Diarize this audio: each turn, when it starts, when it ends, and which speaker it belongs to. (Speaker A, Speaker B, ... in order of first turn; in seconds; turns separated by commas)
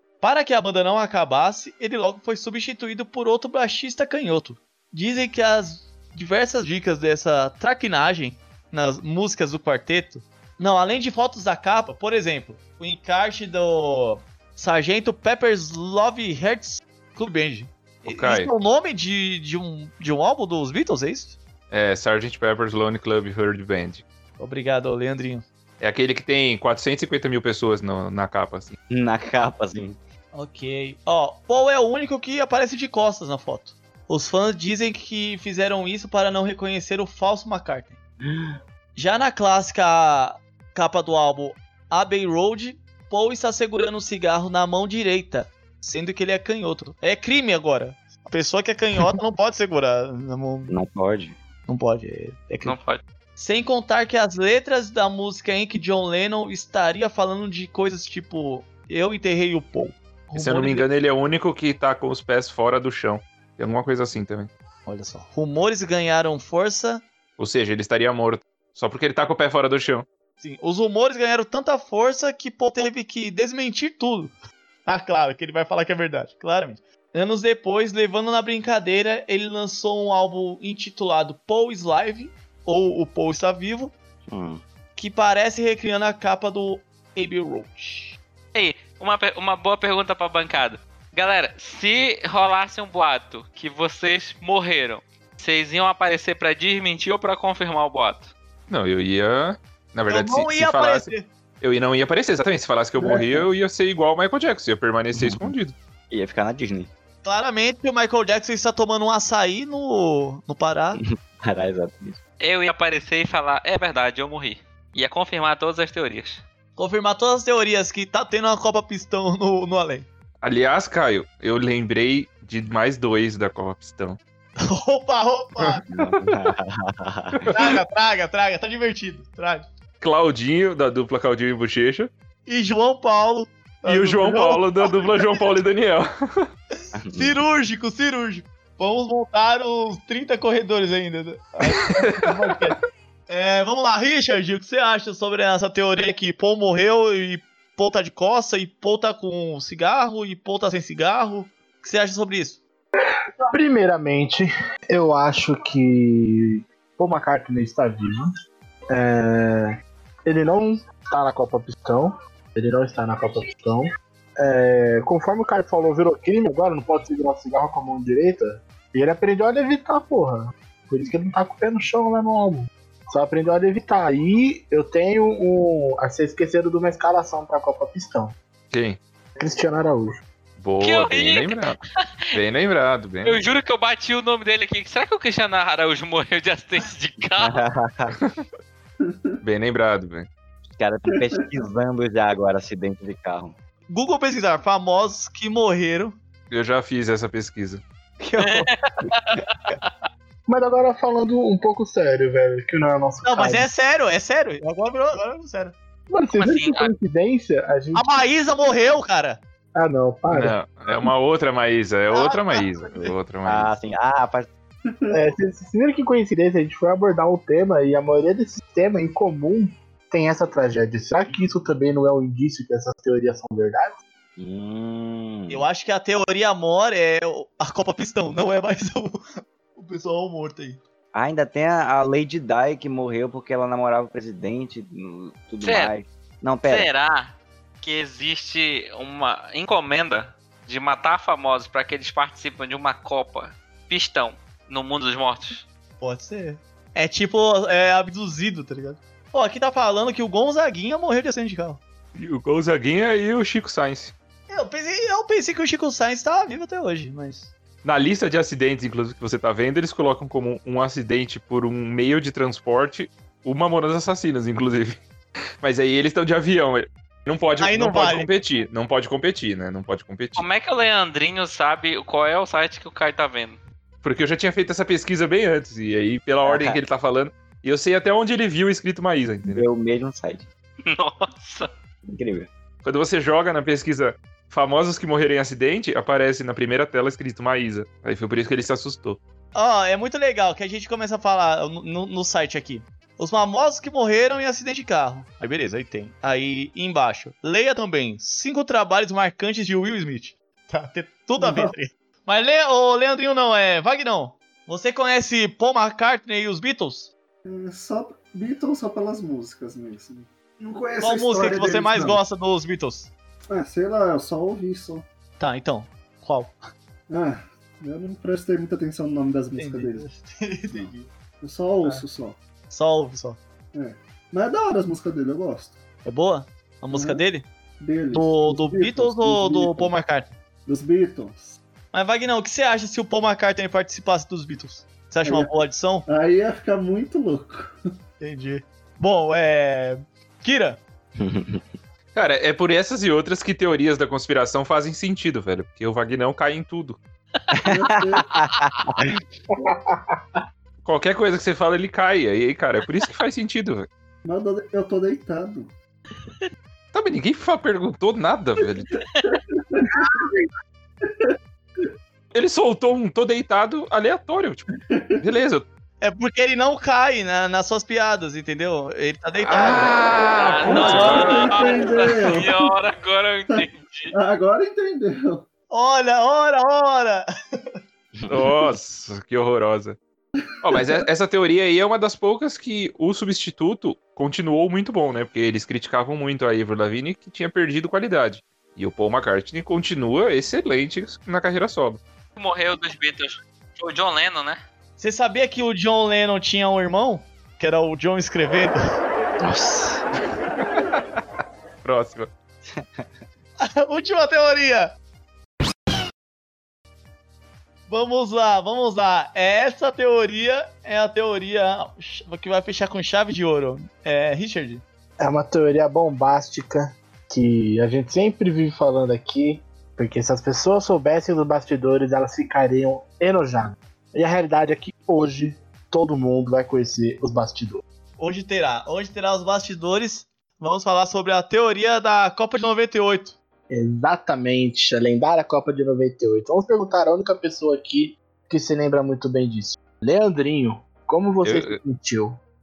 Speaker A: 0.2-21.4, Speaker B: 18.1-18.5, Speaker B: 21.7-24.0, Speaker A: 24.4-25.4, Speaker B: 25.8-28.8, Speaker C: 28.9-30.0, Speaker A: 30.3-38.0, Speaker C: 38.2-38.5, Speaker A: 39.0-50.7, Speaker C: 50.7-51.4, Speaker A: 51.7-52.8, Speaker D: 52.6-53.0, Speaker A: 53.4-60.9, Speaker B: 60.3-64.5, Speaker A: 64.8-67.0, Speaker B: 67.4-70.0, Speaker A: 70.4-74.3, Speaker A: 74.8-83.9, Speaker C: 84.3-84.6, Speaker A: 85.0-88.2, Speaker D: 88.5-98.3, Speaker B: 98.7-105.7, Speaker A: 100.1-101.3, Speaker E: 103.0-103.5, Speaker C: 105.1-105.5, Speaker C: 106.1-106.9, Speaker A: 107.2-111.0, Speaker C: 110.9-112.2, Speaker D: 112.4-116.4, Speaker A: 116.8-120.1, Speaker B: 120.4-124.2, Speaker A: 124.6-125.8, Speaker C: 125.9-127.5, Speaker B: 127.3-127.7, Speaker A: 127.5-129.7, Speaker B: 130.0-132.1, Speaker A: 132.5-135.4, Speaker B: 133.8-136.5, Speaker C: 136.9-137.4, Speaker A: 137.1-142.8, Speaker B: 141.6-142.3, Speaker A: 143.3-152.6, Speaker F: 153.5-158.3, Speaker F: 158.9-159.7, Speaker F: 160.2-178.3, Speaker B: 178.7-179.0, Speaker F: 179.4-180.2, Speaker B: 180.6-181.8, Speaker D: 180.8-182.4, Speaker B: 182.3-183.4, Speaker D: 183.2-187.6, Speaker C: 187.4-188.2, Speaker B: 188.2-188.4, Speaker E: 189.0-189.4, Speaker B: 189.4-190.3, Speaker C: 190.7-193.6, Speaker E: 191.1-191.4, Speaker A: 193.9-196.2, Speaker B: 196.5-197.8, Speaker C: 198.2-198.7, Speaker D: 198.4-199.9, Speaker F: 200.5-203.7, Speaker A: 203.2-205.7, Speaker F: 206.1-208.2, Speaker D: 206.4-206.9, Speaker A: 207.9-209.4, Speaker F: 209.7-211.1, Speaker B: 210.3-213.7, Speaker A: 212.1-213.1, Speaker C: 213.4-214.5, Speaker E: 214.8-215.2, Speaker F: 215.1-223.9, Speaker C: 224.4-225.6, Speaker A: 225.5-229.2, Speaker A: 229.7-230.8, Speaker C: 231.1-236.9, Speaker D: 235.6-235.9, Speaker D: 236.6-245.7, Speaker A: 246.0-251.8, Speaker B: 252.1-254.1, Speaker A: 254.5-257.5, Speaker B: 257.8-265.0, Speaker B: 265.6-270.4, Speaker A: 267.6-268.3, Speaker D: 270.4-273.6, Speaker B: 274.0-279.6, Speaker C: 279.4-280.5, Speaker D: 280.9-281.7, Speaker C: 282.1-282.5, Speaker B: 282.8-289.2, Speaker A: 289.5-307.1, Speaker E: 301.4-301.7, Speaker E: 307.4-312.2, Speaker A: 311.0-313.1, Speaker E: 313.5-315.1, Speaker A: 315.4-316.5, Speaker E: 317.1-320.0, Speaker A: 319.6-321.1, Speaker E: 321.4-322.4, Speaker A: 322.7-323.4, Speaker E: 323.7-325.8, Speaker A: 326.0-327.5, Speaker E: 326.9-327.2, Speaker E: 327.8-329.9, Speaker A: 328.1-330.4, Speaker E: 330.6-331.6, Speaker A: 331.9-336.1, Speaker E: 335.2-335.5, Speaker E: 336.1-337.8, Speaker A: 338.2-340.8, Speaker C: 341.2-341.6, Speaker B: 342.1-347.0, Speaker C: 347.5-349.1, Speaker E: 347.6-348.4, Speaker F: 349.5-350.4, Speaker B: 350.8-353.9, Speaker E: 354.2-355.7, Speaker B: 356.9-358.9, Speaker E: 359.2-360.0, Speaker E: 361.0-361.9, Speaker B: 362.3-365.6, Speaker E: 364.9-365.2, Speaker A: 366.0-369.9, Speaker B: 369.5-371.6, Speaker D: 370.4-374.1, Speaker E: 370.7-372.7, Speaker A: 370.8-371.2, Speaker E: 374.1-375.5, Speaker A: 375.7-377.3, Speaker C: 378.2-378.5, Speaker B: 378.3-380.0, Speaker B: 380.6-392.0, Speaker E: 380.7-381.0, Speaker D: 392.4-394.6, Speaker A: 395.0-398.8, Speaker C: 399.4-400.0, Speaker B: 400.6-401.0, Speaker B: 401.8-402.3, Speaker C: 402.6-403.1, Speaker A: 403.6-404.9, Speaker A: 407.9-414.8, Speaker F: 415.2-427.8, Speaker A: 428.2-433.4, Speaker F: 433.7-442.4, Speaker B: 441.4-441.8